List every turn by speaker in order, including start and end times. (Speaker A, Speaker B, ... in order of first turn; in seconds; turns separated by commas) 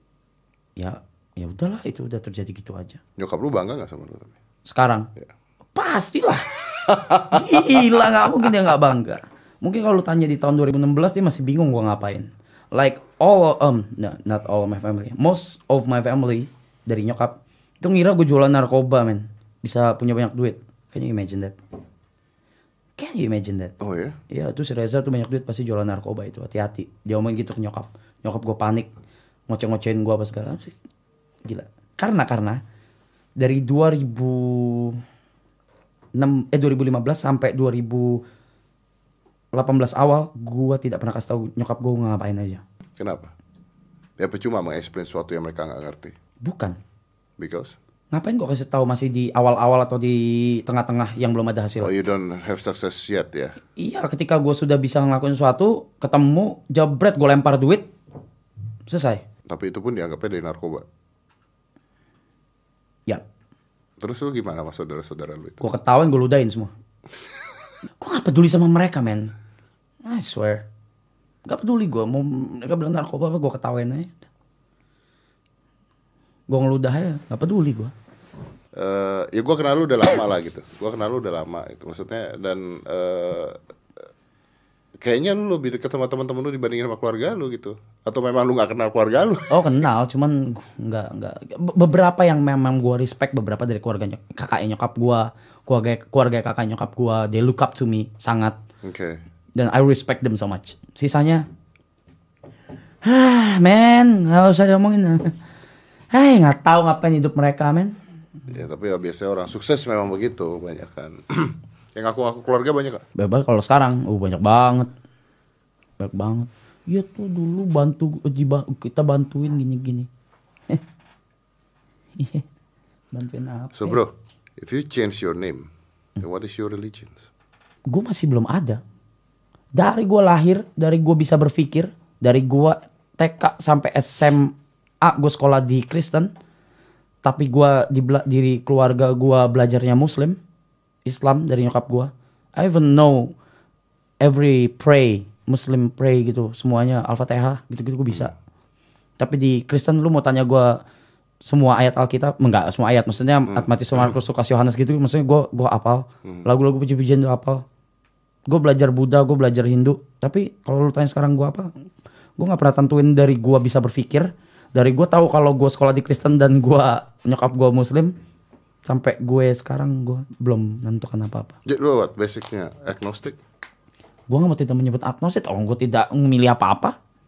Speaker A: 0.8-3.0, Speaker B: 3.2-4.3, Speaker A: 4.7-5.1, Speaker A: 5.7-21.6, Speaker B: 6.8-8.4, Speaker A: 23.0-23.8, Speaker B: 23.8-24.2, Speaker A: 24.3-28.9, Speaker A: 29.5-30.7, Speaker A: 31.4-32.6, Speaker A: 33.4-35.0, Speaker A: 36.1-38.2, Speaker A: 39.5-42.6, Speaker B: 43.0-43.3, Speaker B: 44.2-46.1, Speaker A: 46.4-46.8, Speaker B: 47.4-47.7, Speaker A: 48.1-51.9, Speaker B: 51.8-53.6, Speaker A: 53.8-57.9, Speaker A: 58.9-59.2, Speaker B: 59.5-60.8, Speaker B: 64.0-65.6, Speaker A: 65.6-66.7, Speaker A: 67.9-69.3, Speaker A: 70.0-70.7, Speaker A: 71.5-74.1, Speaker A: 76.5-77.9, Speaker B: 78.8-83.6, Speaker B: 85.0-89.8, Speaker A: 89.5-98.6, Speaker B: 98.8-99.2, Speaker A: 99.5-101.5, Speaker A: 103.0-105.3, Speaker A: 106.1-108.0, Speaker B: 108.5-113.0, Speaker A: 113.2-114.9, Speaker A: 116.0-120.1, Speaker A: 122.2-122.5, Speaker A: 123.1-124.0, Speaker B: 123.7-127.3, Speaker A: 127.9-128.8, Speaker A: 129.7-136.3, Speaker A: 137.2-140.4, Speaker A: 141.1-143.3, Speaker A: 144.2-148.3, Speaker A: 149.2-150.8, Speaker A: 151.4-157.6, Speaker B: 153.5-154.1, Speaker A: 158.5-161.7, Speaker A: 162.4-168.1, Speaker A: 168.8-171.6, Speaker B: 171.7-173.4, Speaker A: 174.3-176.9